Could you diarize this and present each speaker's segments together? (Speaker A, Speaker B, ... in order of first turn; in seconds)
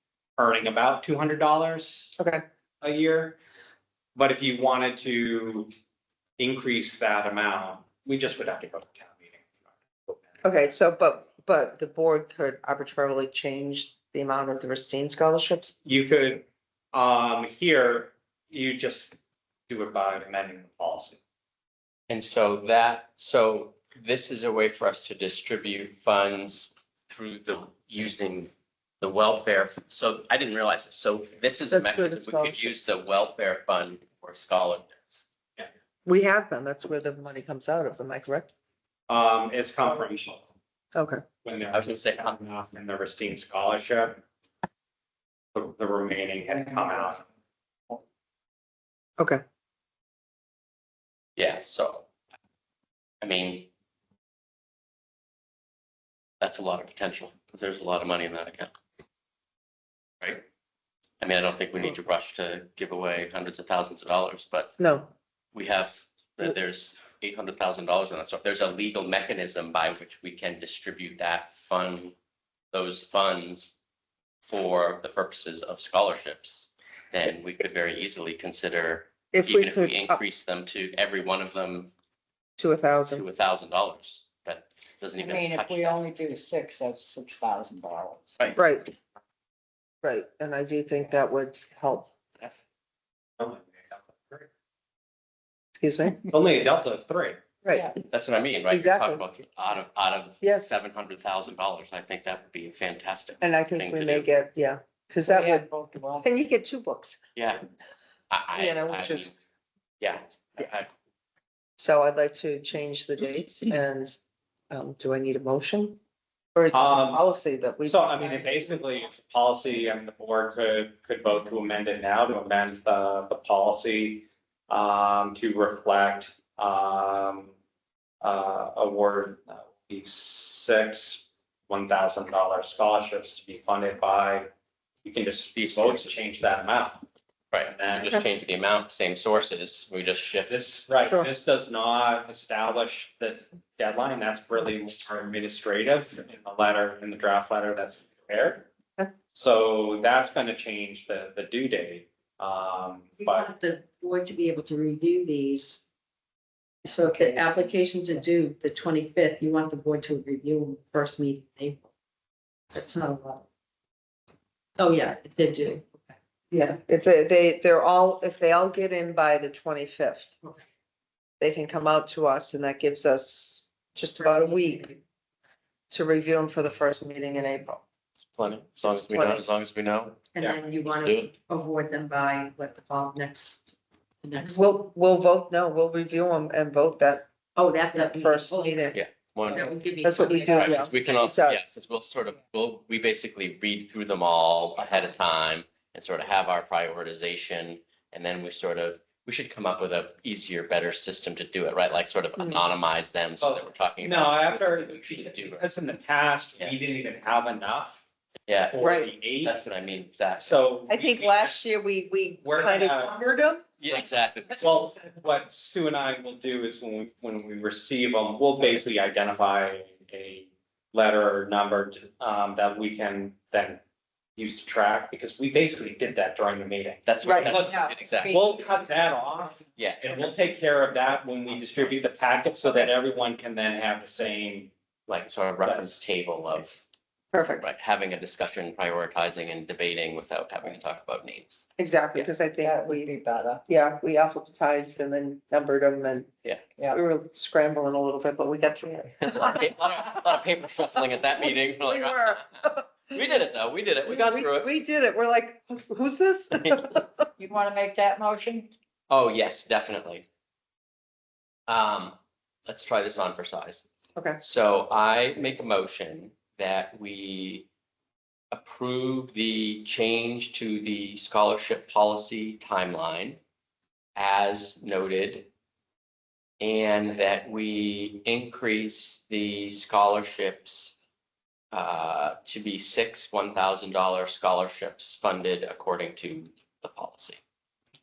Speaker A: 0.4-2.1, 2.8-3.4, 4.2-5.7, 6.4-9.5, 10.1-10.4, 15.8-19.2, 19.7-21.2, 39.1-40.5, 41.4-44.2, 45.5-47.3, 93.4-94.5, 96.3-97.4, 116.7-117.2, 117.8-127.5, 128.2-134.5, 135.1-137.0, 137.6-138.2, 140.5-148.7, 149.3-153.5, 203.4-208.0, 208.6-209.6, 210.4-211.6, 212.4-213.1, 214.5-223.8, 224.4-234.7, 235.7-236.0
Speaker B: 2.2-2.4, 10.4-15.8, 36.1-38.5, 40.9-41.2, 64.8-65.1, 79.3-80.2, 82.6-83.2, 88.5-88.9, 90.0-92.1, 95.8-96.3, 97.6-97.9, 98.7-99.2, 100.4-100.7, 103.4-105.7, 106.2-107.2, 108.5-109.3, 111.8-114.2, 114.7-116.0, 116.5-118.9, 166.5-170.3, 171.4-175.0, 175.9-177.8, 178.8-179.5, 184.4-187.3, 187.9-189.0, 190.0-191.6, 208.8-209.1, 210.9-213.7, 227.2-227.5, 237.3-237.7, 241.8-243.1, 243.7-246.3, 246.9-249.7, 251.4-253.2, 254.1-257.3, 264.2-264.4
Speaker C: 22.1-28.5, 29.0-35.2, 41.7-42.4, 51.4-52.1, 53.2-53.7, 56.4-58.7, 60.2-60.5, 61.2-64.8, 65.5-72.2, 72.7-73.7, 74.4-81.9, 83.1-86.0, 98.1-104.3, 107.3-107.7, 108.3-109.3, 110.0-110.9, 135.6-136.2, 137.5-140.6, 178.2-181.3, 188.9-205.7, 208.5-208.8, 209.4-210.6, 213.8-214.7, 227.1-228.4, 229.8-230.2, 235.1-236.8, 237.6-242.3, 249.2-254.7, 259.1-260.2, 261.7-262.2, 262.7-263.9, 264.4-267.7, 268.5-273.4, 274.2-275.5, 276.6-280.9, 281.7-287.4
Speaker D: 85.2-88.6, 105.3-106.3, 156.8-157.6, 227.5-228.6, 242.6-243.6, 257.4-258.7
Speaker E: 153.2-155.9, 156.9-161.8, 162.7-163.4, 164.8-166.1, 174.2-175.0, 180.3-184.8, 187.6-188.9, 189.5-191.1